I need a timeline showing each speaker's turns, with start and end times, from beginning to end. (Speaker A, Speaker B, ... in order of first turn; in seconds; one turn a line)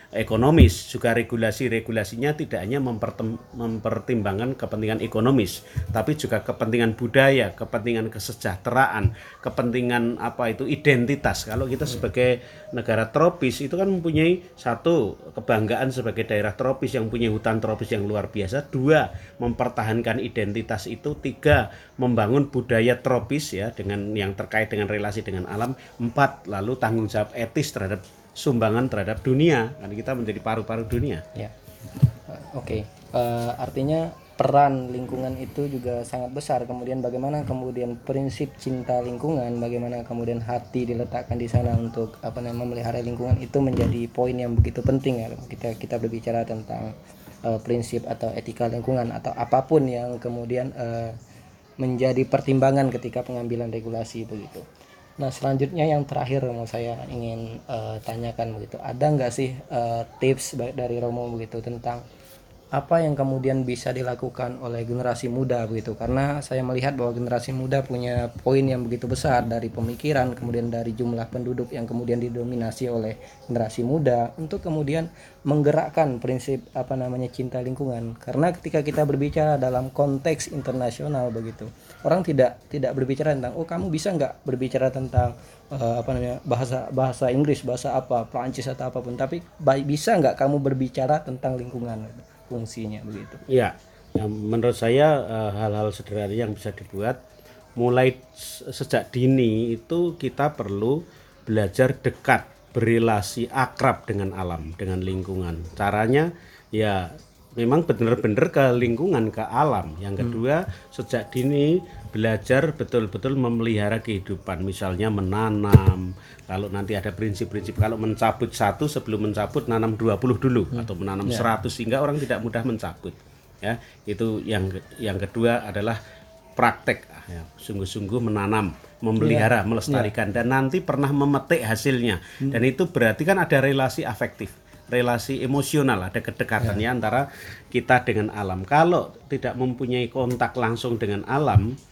Speaker A: 0.2-31.2
Speaker B: 32.3-46.9
Speaker B: 47.5-51.2
Speaker B: 51.8-54.6
Speaker B: 55.2-62.0
Speaker B: 62.8-93.4
Speaker A: 93.5-97.2
Speaker A: 97.8-126.0
Speaker B: 120.8-121.5
Speaker A: 126.6-141.7
Speaker B: 129.2-130.1